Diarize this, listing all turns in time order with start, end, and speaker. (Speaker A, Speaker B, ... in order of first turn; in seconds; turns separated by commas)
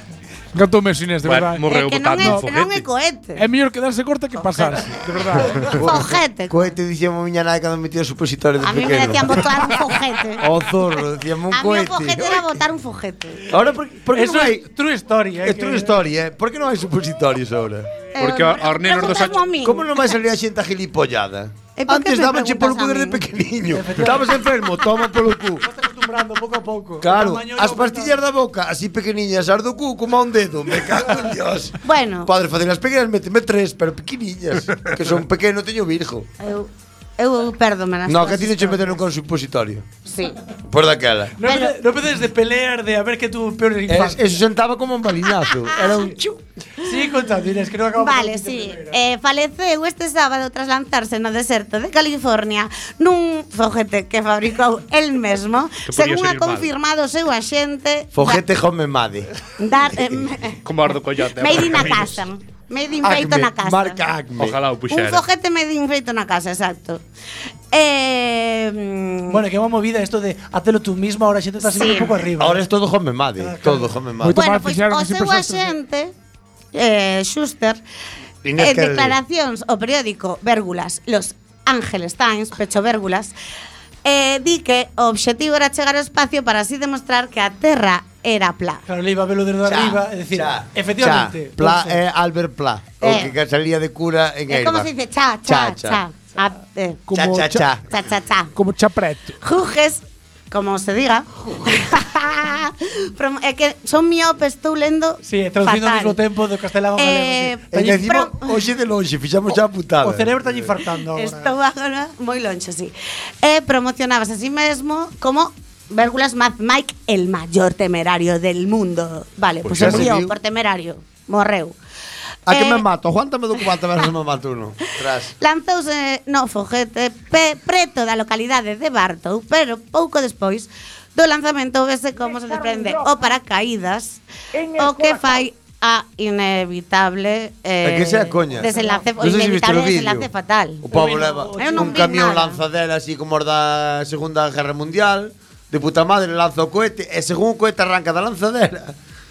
Speaker A: 0.5-1.6, Speaker B: 1.2-2.8, Speaker C: 1.6-3.4, Speaker A: 2.2-2.5, Speaker A: 3.4-5.7, Speaker C: 4.4-4.8, Speaker C: 5.6-6.7, Speaker D: 5.6-9.5, Speaker C: 8.6-10.4, Speaker D: 10.4-12.6, Speaker C: 11.5-13.5, Speaker D: 13.5-14.6, Speaker E: 14.1-16.0, Speaker D: 15.4-17.9, Speaker C: 18.1-20.1, Speaker B: 18.2-19.5, Speaker D: 19.6-25.6, Speaker C: 21.8-23.2, Speaker E: 23.7-24.4, Speaker E: 25.6-28.2, Speaker D: 27.0-36.3, Speaker C: 31.8-32.3, Speaker C: 36.4-38.8, Speaker D: 38.0-39.9, Speaker C: 40.0-40.4, Speaker D: 40.6-41.4, Speaker E: 41.4-44.3, Speaker C: 41.4-41.7, Speaker D: 43.9-46.4, Speaker C: 45.6-46.1, Speaker E: 46.8-49.0, Speaker C: 48.0-58.4, Speaker B: 55.9-56.7, Speaker D: 58.1-59.3, Speaker C: 59.6-60.6, Speaker D: 59.9-60.2, Speaker B: 60.6-62.2, Speaker C: 61.4-64.0, Speaker D: 63.0-64.6, Speaker B: 64.4-65.2, Speaker C: 64.9-67.0, Speaker C: 67.7-69.4, Speaker E: 69.3-72.6, Speaker C: 71.6-72.1, Speaker D: 72.4-74.4, Speaker E: 73.4-73.9, Speaker A: 74.2-75.7, Speaker C: 74.3-76.1, Speaker C: 76.7-77.8, Speaker D: 78.4-79.2, Speaker C: 78.6-83.3, Speaker C: 84.0-88.8, Speaker E: 88.9-92.0, Speaker D: 89.6-94.9, Speaker C: 93.0-93.3, Speaker C: 94.5-97.0, Speaker D: 95.5-96.0, Speaker A: 97.1-97.7, Speaker D: 97.1-97.8, Speaker C: 97.9-98.5, Speaker A: 98.5-99.4, Speaker C: 99.4-106.2, Speaker E: 105.2-108.0, Speaker C: 107.0-108.6, Speaker D: 107.7-110.7, Speaker E: 110.0-111.5, Speaker C: 111.1-121.8, Speaker D: 119.6-120.3, Speaker D: 122.5-125.3, Speaker C: 122.5-122.8, Speaker C: 125.4-140.8, Speaker D: 137.8-140.3, Speaker E: 138.6-139.1, Speaker D: 140.8-148.9, Speaker E: 140.9-142.2, Speaker C: 141.6-142.6